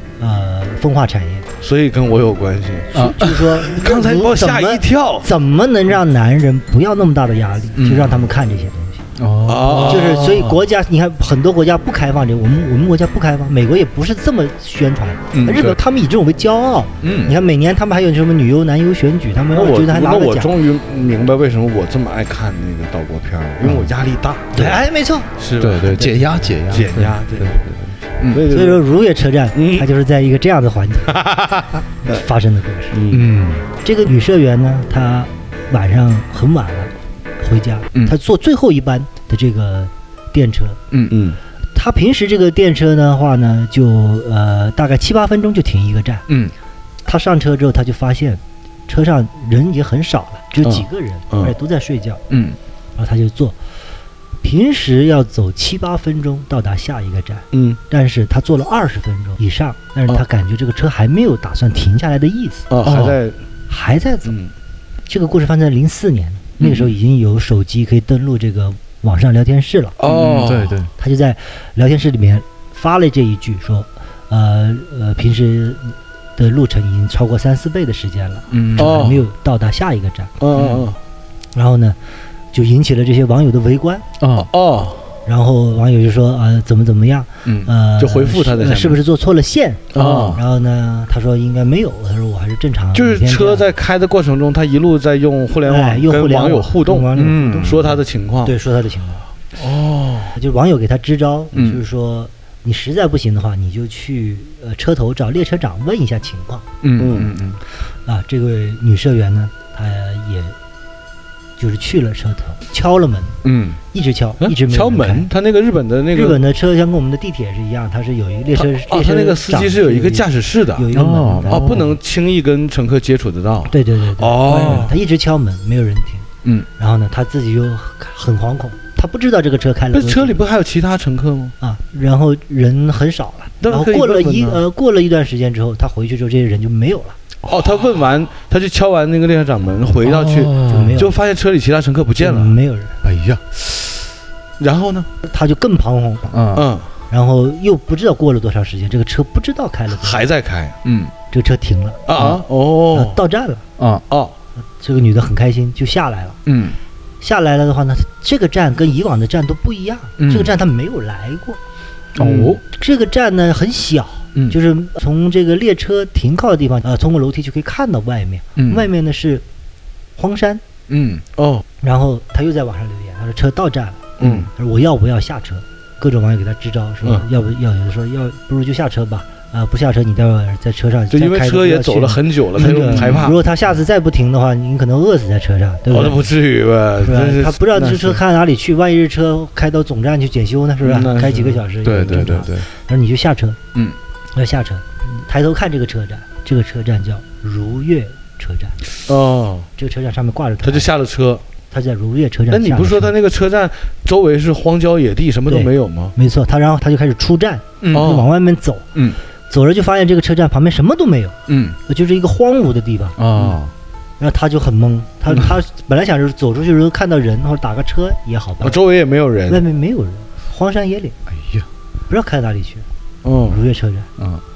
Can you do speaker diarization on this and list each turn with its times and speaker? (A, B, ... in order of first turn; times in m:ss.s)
0:00.2-0:01.5 A
0:01.6-0:02.9 B
0:02.9-0:09.0 A
0:02.9-0:03.6 C
0:03.6-0:05.3 B
0:07.8-0:08.2 C
0:09.2-0:10.6 C
0:09.4-0:10.4 B
0:09.8-0:20.5 A
0:15.3-0:15.8 C
0:17.0-0:17.4 C
0:19.5-0:24.8 B
0:23.6-0:23.9 C
0:24.5-0:25.3 A
0:25.4-0:27.7 B
0:25.6-0:28.4 C
0:28.3-0:28.8 B
0:28.5-0:31.3 A
0:29.5-0:29.9 B
0:31.1-0:32.2 B
0:32.0-0:33.0 A
0:32.9-0:33.3 B
0:33.1-0:33.6 C
0:33.8-0:40.8 A
0:40.9-0:41.2 C
0:41.1-0:41.4 B
0:41.7-0:46.2 A
0:46.3-0:46.5 C
0:47.0-0:52.2 A
0:50.6-0:51.5 B
0:52.3-0:52.6 C
0:53.0-0:53.6 A
0:54.4-1:02.7 A
0:57.5-0:57.8 B
1:02.7-1:03.4 B
1:02.8-1:03.2 C
1:03.7-1:04.4 A
1:04.2-1:04.5 B
1:05.1-1:10.0 A
1:06.6-1:06.9 B
1:10.0-1:10.8 B
1:10.0-1:10.9 C
1:11.0-1:20.3 A
1:18.5-1:19.2 C
1:18.8-1:19.2 B
1:20.4-1:21.0 B
1:20.5-1:20.9 C
1:21.5-1:22.0 A
1:22.5-1:24.0 A
1:24.2-1:24.5 C
1:24.4-1:25.1 B
1:25.2-1:33.7 A
1:27.4-1:27.7 C
1:28.0-1:29.0 B
1:29.9-1:30.4 B
1:29.9-1:30.4 C
1:32.9-1:38.6 B
1:35.6-1:39.2 A
1:37.1-1:37.8 C
1:39.6-1:40.4 B
1:40.3-1:46.6 A
1:41.5-1:41.8 C
1:46.8-1:47.6 C
1:47.0-1:47.3 B
1:48.0-1:50.6 A
1:51.6-1:53.4 A
1:53.4-1:53.8 C
1:53.9-1:55.3 A
1:54.4-1:56.4 B
1:56.1-2:01.9 A
1:58.5-2:00.9 B
2:00.9-2:01.9 C
2:01.5-2:05.0 B
2:03.7-2:10.4 A
2:09.9-2:11.5 B
2:11.6-2:17.2 A
2:13.6-2:14.6 B
2:17.4-2:22.6 B
2:20.0-2:21.0 C
2:20.6-2:21.2 A
2:22.2-2:22.9 A
2:23.0-2:23.4 C
2:23.5-2:24.1 B
2:24.6-2:25.1 B
2:25.2-2:26.3 A
2:26.3-2:26.7 C
2:26.5-2:26.9 B
2:27.1-2:30.3 A
2:29.9-2:30.8 B
2:30.8-2:31.1 C
2:31.3-2:32.0 A
2:32.1-2:33.2 B
2:32.1-2:32.4 C
2:32.9-2:33.6 A
2:33.8-2:34.0 C
2:34.1-2:34.3 B
2:34.8-2:36.4 A
2:36.4-2:36.8 C
2:37.2-2:41.6 A
2:40.2-2:40.5 C
2:42.2-2:42.6 C
2:42.2-2:42.6 B
2:42.6-2:49.4 A
2:48.6-2:48.9 C
2:50.2-2:50.6 A
2:50.9-2:51.2 C
2:51.4-2:51.6 B
2:51.8-3:06.3 A
2:54.2-2:54.5 B
3:01.1-3:03.4 B
3:02.6-3:03.3 C
3:05.9-3:08.2 B
3:07.0-3:13.6 A
3:10.8-3:11.6 B
3:11.8-3:12.6 C
3:14.3-3:18.8 A
3:19.0-3:19.7 B
3:19.8-3:20.9 A
3:20.6-3:21.4 B
3:21.7-3:23.1 A
3:22.5-3:26.1 B
3:25.5-3:28.9 A
3:27.8-3:28.2 C
3:27.9-3:28.3 B
3:29.5-3:31.4 A
3:31.5-3:31.8 C
3:31.9-3:33.2 A
3:33.2-3:33.7 C
3:34.2-3:38.8 A
3:38.6-3:39.6 B
3:39.5-3:41.2 A
3:41.3-3:41.6 C
3:42.1-3:42.9 A
3:43.2-3:43.6 B
3:43.5-3:44.1 A